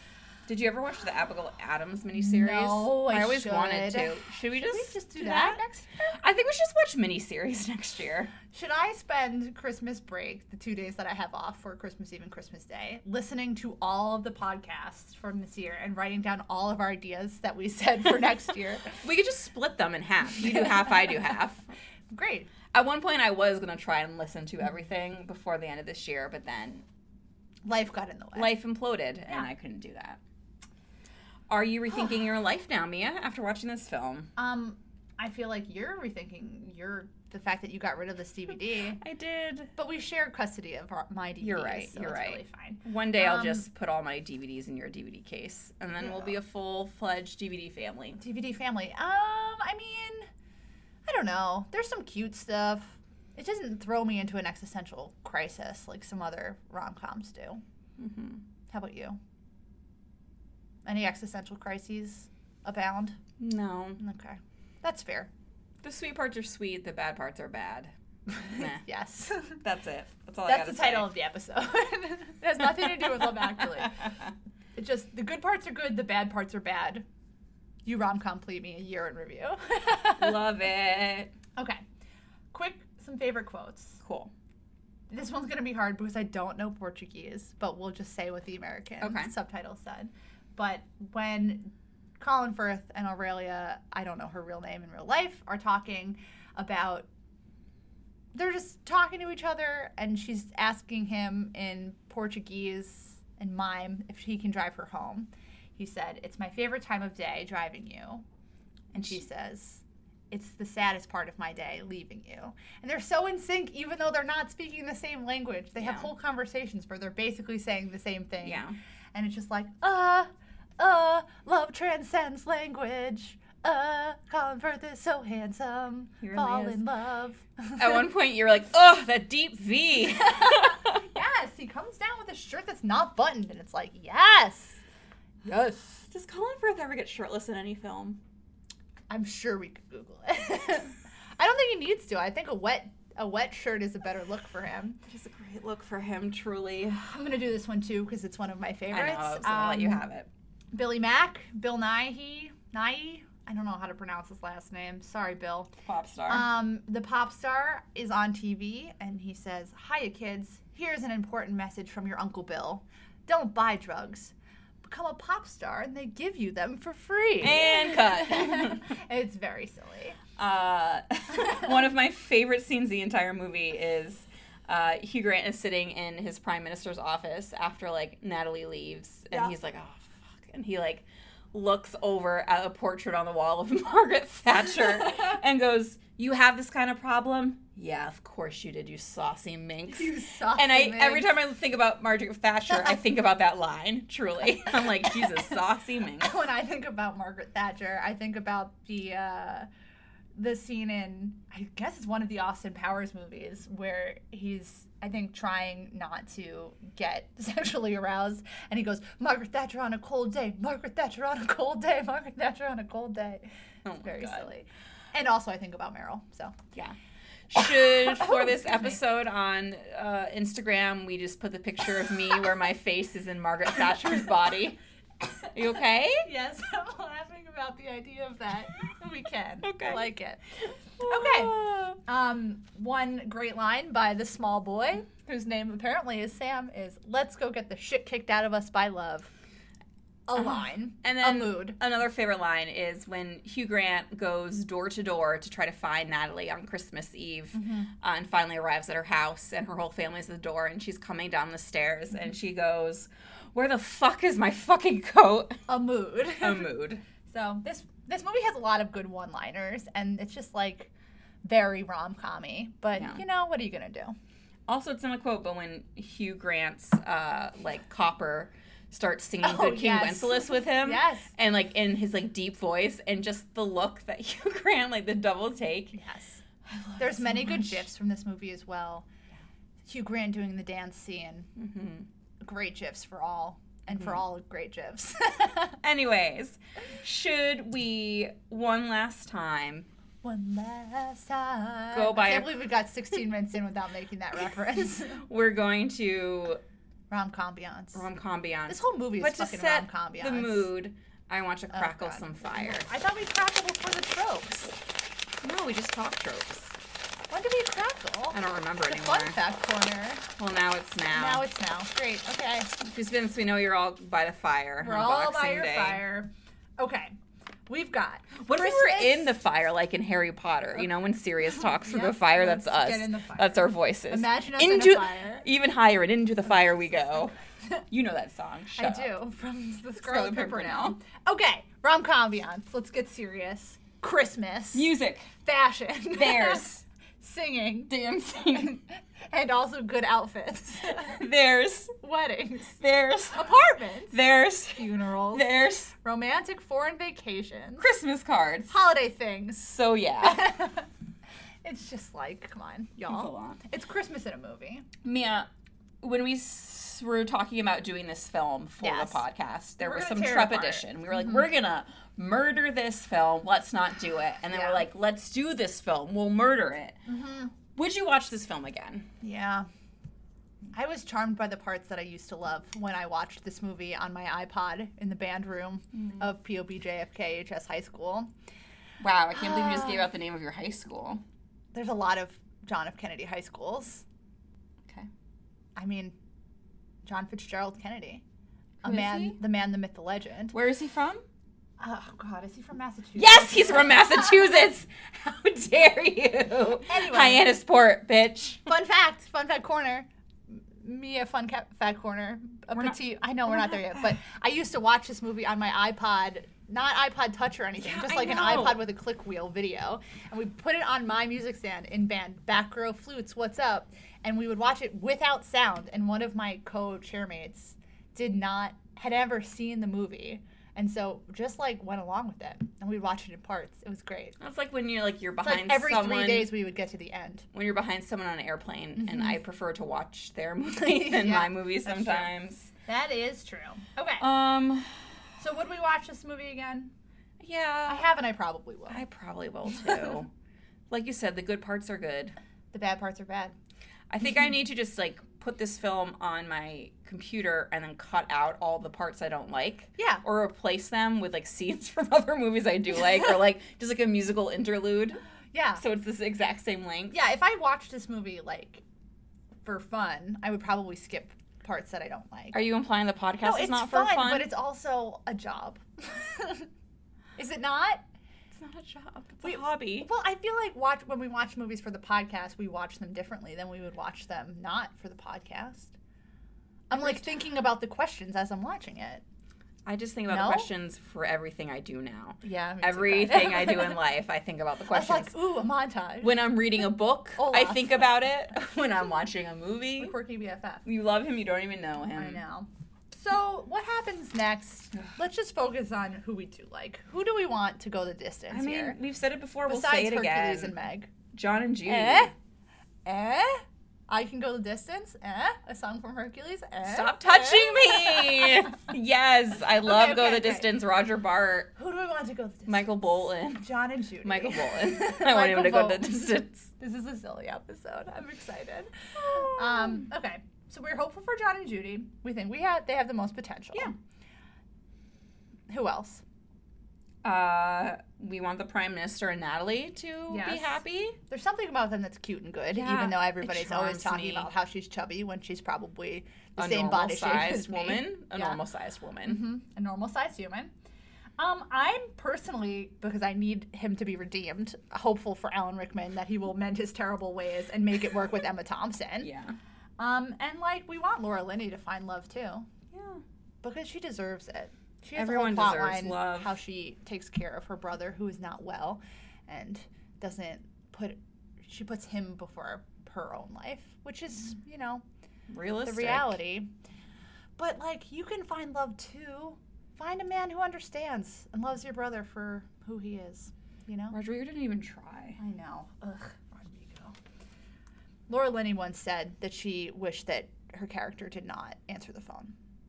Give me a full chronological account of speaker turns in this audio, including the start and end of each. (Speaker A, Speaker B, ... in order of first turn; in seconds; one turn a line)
Speaker A: 0.5-5.6
Speaker B: 2.1-6.2
Speaker A: 6.2-8.3
Speaker B: 8.5-19.0
Speaker A: 19.0-21.7
Speaker B: 22.1-22.5
Speaker A: 22.7-26.8
Speaker B: 27.6-28.5
Speaker A: 28.3-30.2
Speaker A: 31.5-34.3
Speaker B: 34.4-39.0
Speaker A: 39.0-39.7
Speaker B: 39.8-43.6
Speaker A: 41.4-48.2
Speaker B: 48.2-50.3
Speaker B: 51.0-57.6
Speaker A: 58.0-58.4
Speaker B: 58.7-59.2
Speaker B: 60.8-63.1
Speaker A: 63.4-64.0
Speaker B: 64.0-65.3
Speaker A: 65.8-68.8
Speaker B: 68.3-69.6
Speaker A: 69.6-71.1
Speaker B: 70.5-74.1
Speaker A: 72.8-74.3
Speaker B: 74.8-77.0
Speaker B: 77.8-80.4
Speaker A: 80.2-81.3
Speaker B: 81.5-81.8
Speaker B: 82.5-84.0
Speaker A: 84.0-84.3
Speaker B: 85.1-97.1
Speaker A: 89.0-89.3
Speaker B: 98.3-108.2
Speaker B: 108.9-118.6
Speaker A: 115.8-116.1
Speaker A: 118.4-118.7
Speaker B: 119.1-128.1
Speaker A: 126.2-126.8
Speaker A: 127.8-131.1
Speaker B: 130.1-134.8
Speaker A: 135.4-138.2
Speaker B: 139.1-145.0
Speaker A: 145.1-147.0
Speaker B: 147.0-150.0
Speaker A: 148.9-150.3
Speaker B: 150.7-155.7
Speaker A: 155.8-156.5
Speaker B: 156.3-170.2
Speaker A: 167.4-168.8
Speaker A: 170.4-196.3
Speaker B: 189.9-191.3
Speaker B: 192.7-193.0
Speaker B: 196.2-199.7
Speaker B: 200.3-213.4
Speaker A: 213.8-214.5
Speaker B: 214.0-216.5
Speaker A: 217.5-224.8
Speaker B: 217.6-219.0
Speaker A: 225.5-226.2
Speaker B: 226.2-230.4
Speaker A: 229.6-230.1
Speaker A: 231.0-232.0
Speaker B: 231.1-239.3
Speaker B: 240.3-241.8
Speaker A: 240.4-255.6
Speaker B: 247.5-247.9
Speaker B: 255.7-256.7
Speaker A: 256.4-257.0
Speaker B: 257.2-260.9
Speaker B: 261.4-264.1
Speaker A: 262.9-263.2
Speaker A: 264.7-275.9
Speaker B: 269.4-271.3
Speaker B: 275.9-276.4
Speaker A: 276.6-277.9
Speaker B: 277.0-279.1
Speaker B: 279.9-281.5
Speaker A: 281.6-282.1
Speaker B: 282.4-285.8
Speaker A: 283.9-284.2
Speaker A: 285.8-289.9
Speaker B: 290.2-295.2
Speaker A: 291.9-292.6
Speaker A: 295.2-296.6
Speaker B: 297.1-298.0
Speaker A: 297.9-302.9
Speaker B: 298.7-300.7
Speaker B: 301.7-304.7
Speaker A: 305.4-306.8
Speaker B: 307.3-310.2
Speaker A: 308.3-309.4
Speaker A: 310.4-311.4
Speaker B: 311.1-312.7
Speaker A: 312.8-316.0
Speaker B: 314.8-317.1
Speaker B: 317.7-319.4
Speaker A: 318.4-327.3
Speaker B: 321.6-325.4
Speaker A: 327.9-329.1
Speaker B: 328.8-334.9
Speaker A: 330.0-331.0
Speaker A: 334.7-335.3
Speaker B: 335.4-336.6
Speaker A: 336.1-336.8
Speaker B: 337.2-337.9
Speaker A: 337.9-338.8
Speaker B: 338.5-341.2
Speaker A: 340.9-341.9
Speaker B: 342.0-342.8
Speaker A: 342.8-343.5
Speaker B: 343.3-344.2
Speaker A: 344.1-345.9
Speaker B: 344.7-347.9
Speaker A: 347.8-348.7
Speaker B: 348.7-350.9
Speaker A: 349.6-350.5
Speaker B: 351.6-354.9
Speaker A: 353.1-353.6
Speaker A: 355.0-355.5
Speaker A: 356.0-367.0
Speaker B: 358.8-359.2
Speaker B: 359.8-361.4
Speaker B: 364.5-364.8
Speaker B: 367.1-367.5
Speaker A: 367.7-369.1
Speaker B: 369.2-369.7
Speaker B: 370.7-378.3
Speaker A: 379.0-381.2
Speaker B: 379.4-380.0
Speaker B: 381.7-384.0
Speaker B: 385.8-386.1
Speaker B: 387.0-388.2
Speaker A: 388.8-389.4
Speaker B: 388.8-390.5
Speaker A: 390.5-391.2
Speaker B: 391.8-394.3
Speaker A: 393.1-398.6
Speaker B: 396.8-397.5
Speaker B: 398.6-424.4
Speaker A: 403.5-403.8
Speaker A: 407.8-408.9
Speaker A: 424.4-426.5
Speaker B: 425.4-427.4
Speaker A: 427.5-432.7
Speaker B: 429.0-429.4
Speaker B: 430.9-432.3
Speaker B: 432.9-434.2
Speaker A: 434.2-435.0
Speaker B: 435.4-436.9
Speaker A: 437.4-438.0
Speaker B: 437.9-439.0
Speaker A: 438.9-440.3
Speaker A: 440.9-442.4
Speaker B: 442.7-443.5
Speaker A: 444.1-455.2
Speaker B: 450.0-450.2
Speaker B: 455.5-455.8
Speaker A: 455.8-457.1
Speaker B: 457.1-458.8
Speaker B: 459.6-462.6
Speaker A: 462.5-464.5
Speaker B: 463.4-466.7
Speaker B: 467.4-468.0
Speaker A: 468.5-470.1
Speaker B: 469.4-475.9
Speaker B: 476.9-479.2
Speaker A: 476.9-477.3
Speaker A: 479.9-485.3
Speaker B: 480.3-480.7
Speaker B: 482.4-484.0
Speaker B: 484.9-486.4
Speaker A: 486.2-490.1
Speaker B: 487.4-488.1
Speaker B: 490.0-490.8
Speaker A: 490.8-492.4
Speaker B: 492.1-499.0
Speaker A: 498.5-500.7
Speaker B: 499.7-501.1
Speaker A: 501.3-502.3
Speaker B: 501.8-502.3
Speaker B: 503.0-508.7
Speaker A: 506.8-511.7
Speaker B: 509.8-510.7
Speaker B: 511.8-516.2
Speaker A: 512.7-513.7
Speaker A: 514.2-516.7
Speaker B: 516.8-523.9
Speaker A: 519.1-520.1
Speaker B: 525.7-526.2
Speaker A: 527.2-531.2
Speaker B: 530.3-538.6
Speaker A: 532.7-534.5
Speaker A: 536.6-539.4
Speaker B: 539.2-540.7
Speaker B: 541.4-549.3
Speaker A: 549.2-549.5
Speaker B: 550.0-552.7
Speaker A: 552.9-553.2
Speaker B: 553.6-565.0
Speaker A: 555.1-556.5
Speaker A: 565.5-566.4
Speaker B: 565.8-566.7
Speaker B: 567.6-574.2
Speaker A: 574.1-575.4
Speaker B: 575.4-577.1
Speaker B: 578.3-582.5